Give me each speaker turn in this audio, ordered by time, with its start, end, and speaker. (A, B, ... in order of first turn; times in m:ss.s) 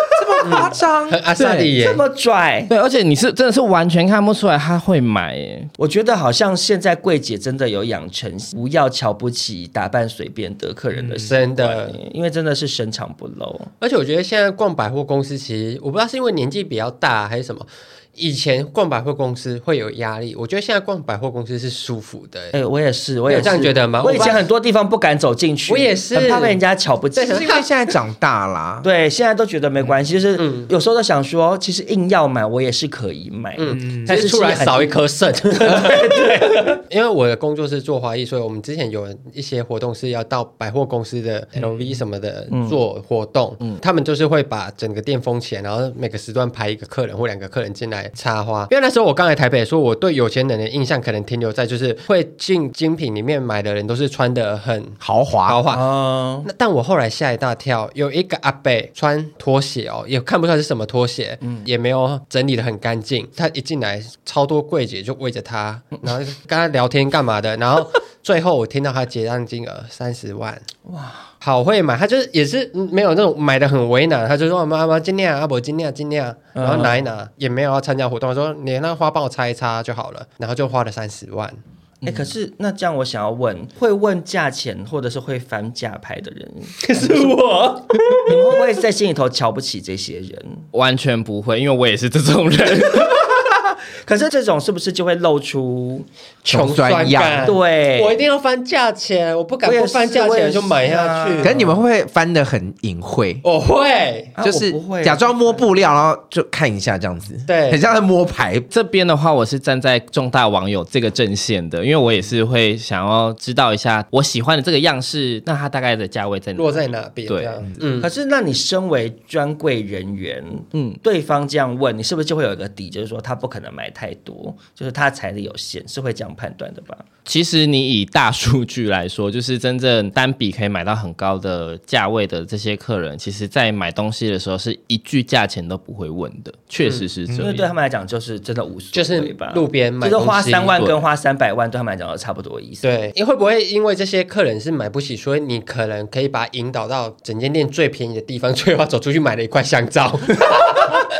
0:00.2-0:01.2 A
0:00.4-0:02.0 B
0:01.4-0:01.7 C
0:01.8-0:02.7 D
0:02.7-0:05.7 C
0:05.8-0:13.7 D
0:11.3-0:12.0 B
0:13.8-0:22.6 B
0:22.5-0:27.6 D
0:23.3-0:24.4 B
0:25.7-0:26.6 B
0:27.2-0:27.5 B
0:27.3-0:28.9 A
0:28.8-0:35.0 D
0:30.4-0:30.7 B
0:33.6-0:55.8 B
0:35.5-0:36.8 D
0:42.5-0:42.8 D
0:55.0-0:55.7 A
0:55.7-0:56.5 D
0:56.4-1:10.6 B
1:10.9-1:11.3 D
1:11.4-1:21.6 B
1:16.6-1:17.0 D
1:22.0-1:27.4 D
1:26.8-1:28.4 B
1:28.2-1:30.6 D
1:30.7-1:33.3 C
1:34.0-1:36.1 D
1:36.4-1:41.7 B
1:36.5-1:37.6 A
1:37.4-1:38.2 D
1:39.6-1:41.6 D
1:41.4-1:43.4 A
1:43.4-1:44.3 B
1:44.4-1:45.7 D
1:44.4-1:48.7 A
1:47.5-1:47.8 B
1:48.7-1:57.7 C
1:56.6-1:58.1 B
1:58.0-2:07.0 D
2:00.7-2:01.0 C
2:07.2-2:17.7 C
2:17.4-2:22.9 D
2:18.9-2:20.8 B
2:22.8-2:31.0 B